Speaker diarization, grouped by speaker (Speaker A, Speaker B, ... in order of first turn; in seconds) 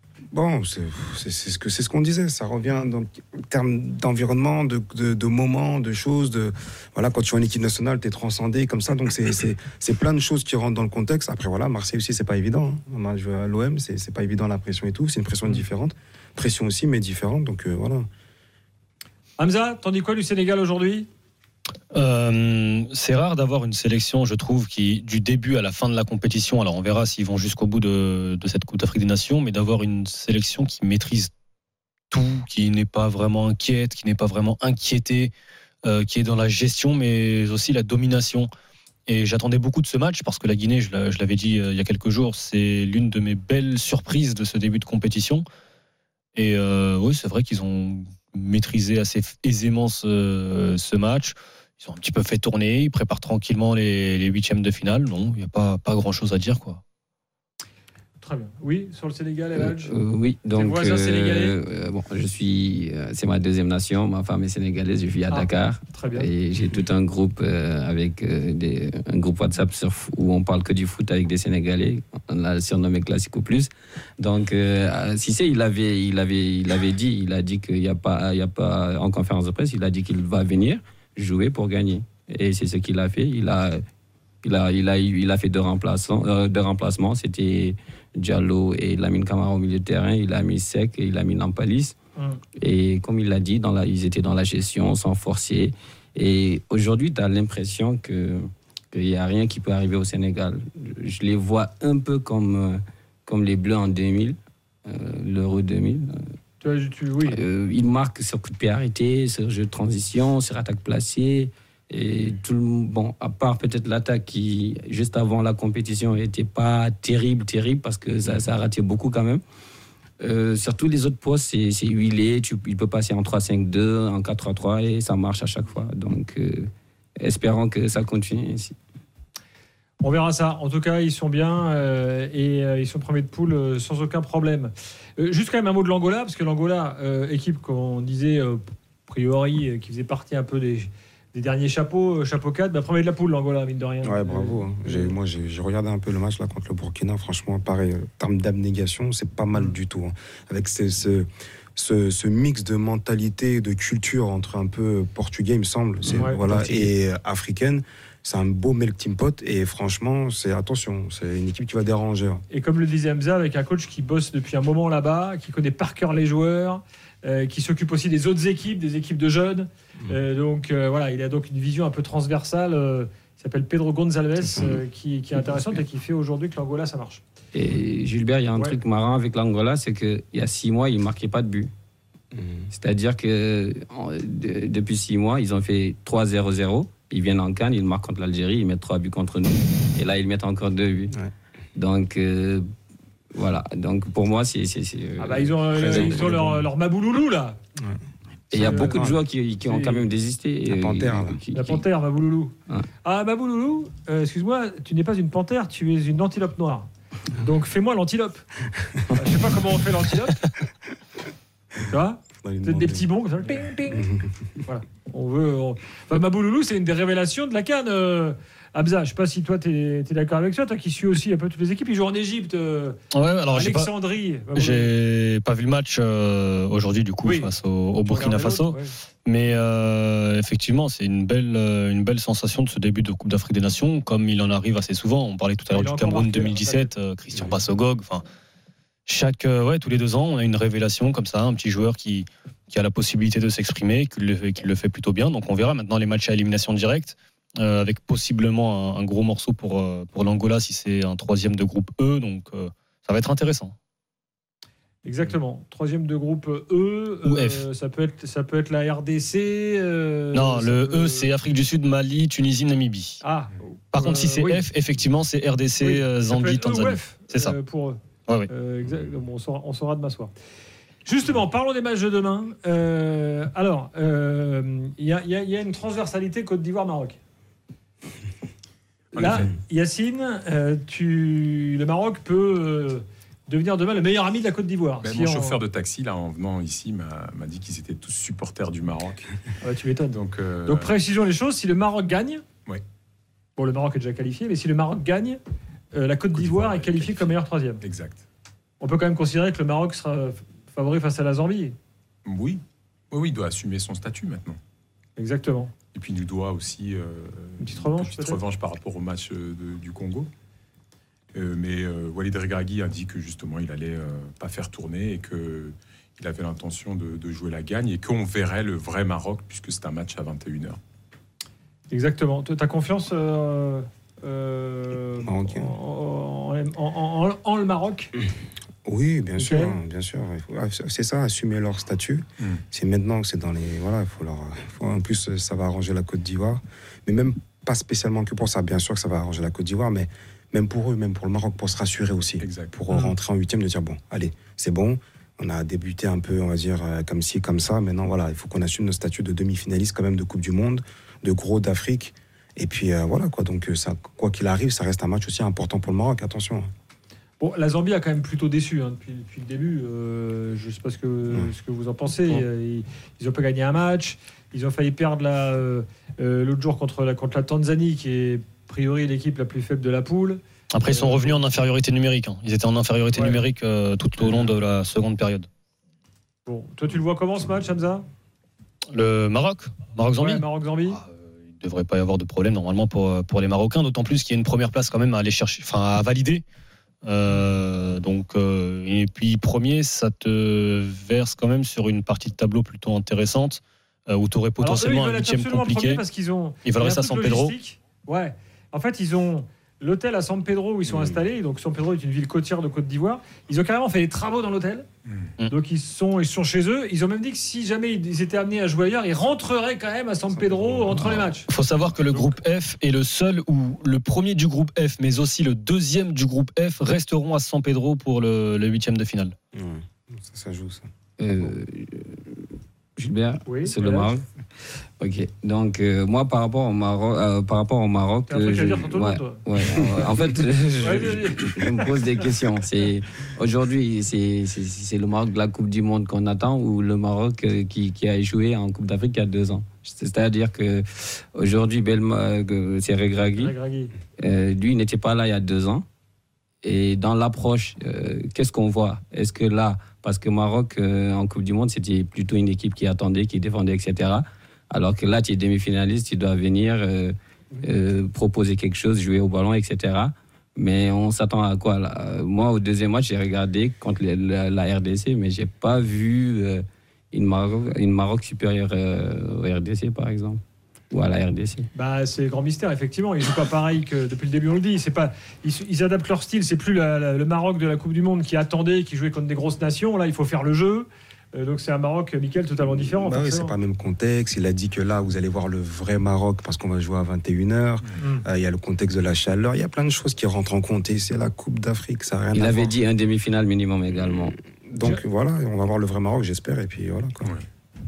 Speaker A: 0.3-18.1, 144.0-162.4, 174.4-174.8, 182.3-182.7, 195.8-196.5, 198.5-199.2, 200.7-201.4, 212.4-213.1, 213.9-214.4, 237.3-237.6, 325.2-325.7, 328.9-356.7, 410.3-411.3, 419.5-420.9, 482.6-492.8, 494.6-497.4
Speaker B: 19.4-21.1, 58.2-60.0, 60.5-61.6, 65.3-66.3, 106.6-107.4, 130.0-145.2, 156.1-156.9, 162.5-177.2, 195.2-197.6, 198.5-199.1, 199.6-200.1, 201.5-208.4, 209.1-210.4, 211.9-214.0, 214.7-224.9, 227.2-227.5, 228.0-228.9, 235.7-236.9, 255.0-261.3, 263.2-264.6, 265.8-270.3, 271.1-277.2, 279.1-285.6, 289.6-292.4, 293.6-295.4, 295.9-297.8, 298.8-301.8, 305.2-305.7, 307.6-308.4, 321.9-328.1, 329.4-329.8, 357.4-371.4, 373.1-373.4, 376.5-378.1, 380.2-381.0, 394.6-404.9, 405.5-411.5, 412.1-412.4, 423.5-424.1, 428.3-430.1, 430.8-432.1, 443.4-443.9, 471.8-483.6, 488.0-488.2
Speaker C: 21.9-31.3, 32.1-35.3, 35.8-38.5, 39.1-45.5, 46.4-56.8, 223.1-223.9, 224.5-238.2, 239.1-253.8, 257.2-257.6, 260.3-263.2, 263.9-267.6, 370.7-375.5, 378.9-386.4, 387.0-396.0, 396.6-397.5, 411.5-419.4
Speaker D: 59.6-83.8, 84.4-92.0, 92.6-98.4, 98.9-104.4, 104.9-106.1, 107.3-119.4, 120.2-126.7, 127.2-128.8, 177.5-181.7, 182.7-191.2, 191.8-192.7, 193.3-196.4, 198.6-201.8, 421.2-422.5, 423.0-424.2, 425.0-443.5, 444.2-445.9, 446.6-470.4, 470.9-471.7, 492.4-494.4
Speaker E: 279.1-279.5, 285.0-289.3, 290.1-290.9, 296.3-298.2, 302.2-304.6, 305.9-310.3, 311.3-320.8, 342.4-342.7, 374.2-374.5